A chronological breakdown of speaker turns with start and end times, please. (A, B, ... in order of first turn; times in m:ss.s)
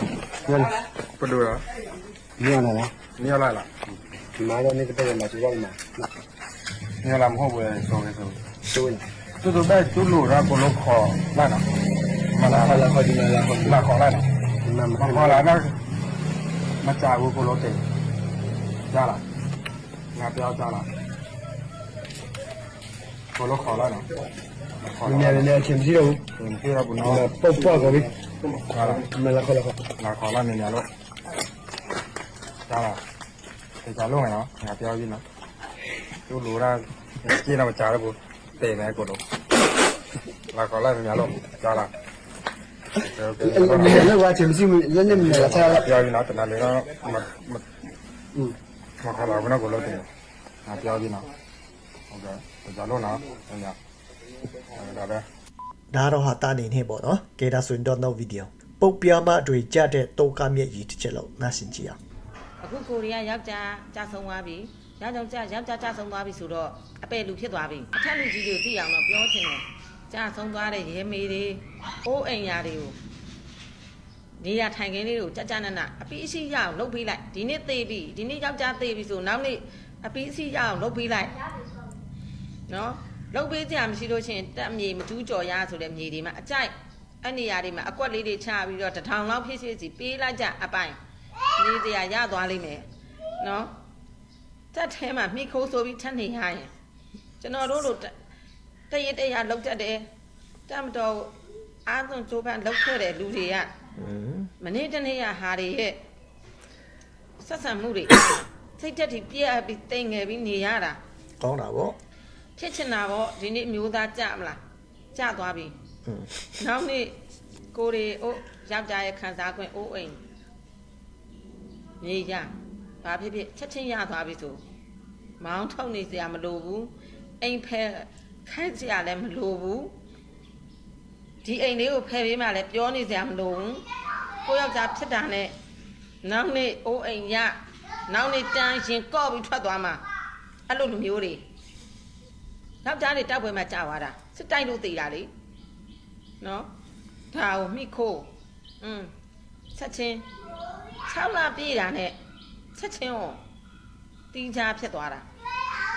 0:01.2-0:01.6 A
0:02.4-0:03.0 B
0:03.1-0:04.0 A
0:04.4-0:06.1 B
0:07.0-0:08.4 A
0:08.7-0:09.1 B
0:09.4-0:11.6 A
0:12.3-0:12.9 A
0:12.4-0:13.8 B
0:13.6-0:14.3 A
0:14.6-0:15.5 B
0:15.0-0:15.8 A
0:16.8-0:17.8 A
0:18.9-0:19.2 A
0:20.2-0:20.9 A
0:23.4-0:24.0 A
0:24.8-0:25.6 A
0:25.0-0:26.2 B
0:26.4-0:27.3 A
0:27.0-0:28.2 B
0:28.7-0:29.1 A
0:28.8-0:29.8 B
0:30.0-0:30.8 A
0:32.7-0:33.0 A
0:33.8-0:35.2 A
0:36.3-0:39.2 A
0:40.5-0:41.9 A
0:43.0-0:44.2 A
0:43.4-0:45.8 B
0:45.1-0:47.6 A
0:49.0-0:50.1 A
0:50.6-0:51.3 A
0:52.1-0:53.8 A
0:54.7-0:55.2 A
0:55.9-1:02.0 C
1:02.6-1:13.0 D
1:14.4-1:21.4 D
1:22.7-1:31.0 D
1:31.6-1:32.9 D
1:33.4-1:33.7 D
1:34.7-1:36.7 D
1:37.4-1:38.1 D
1:38.9-1:40.0 D
1:40.7-1:41.3 D
1:41.8-1:43.7 D
1:44.0-1:44.5 C
1:44.6-1:46.0 D
1:47.4-1:51.0 D
1:51.4-1:52.0 C
1:52.6-1:54.6 D
1:55.1-1:55.7 D
1:56.0-1:56.6 C
1:56.6-1:57.2 D
1:57.7-2:00.2 D
2:02.0-2:02.5 D
2:03.0-2:04.6 D
2:05.4-2:10.0 D
2:11.4-2:13.8 D
2:14.4-2:15.5 D
2:16.2-2:17.6 D
2:18.1-2:20.0 D
2:20.7-2:21.4 D
2:22.8-2:25.3 D
2:26.4-2:26.7 D
2:27.3-2:29.1 D
2:29.7-2:30.3 D
2:31.1-2:32.2 D
2:32.7-2:33.4 D
2:34.3-2:35.3 D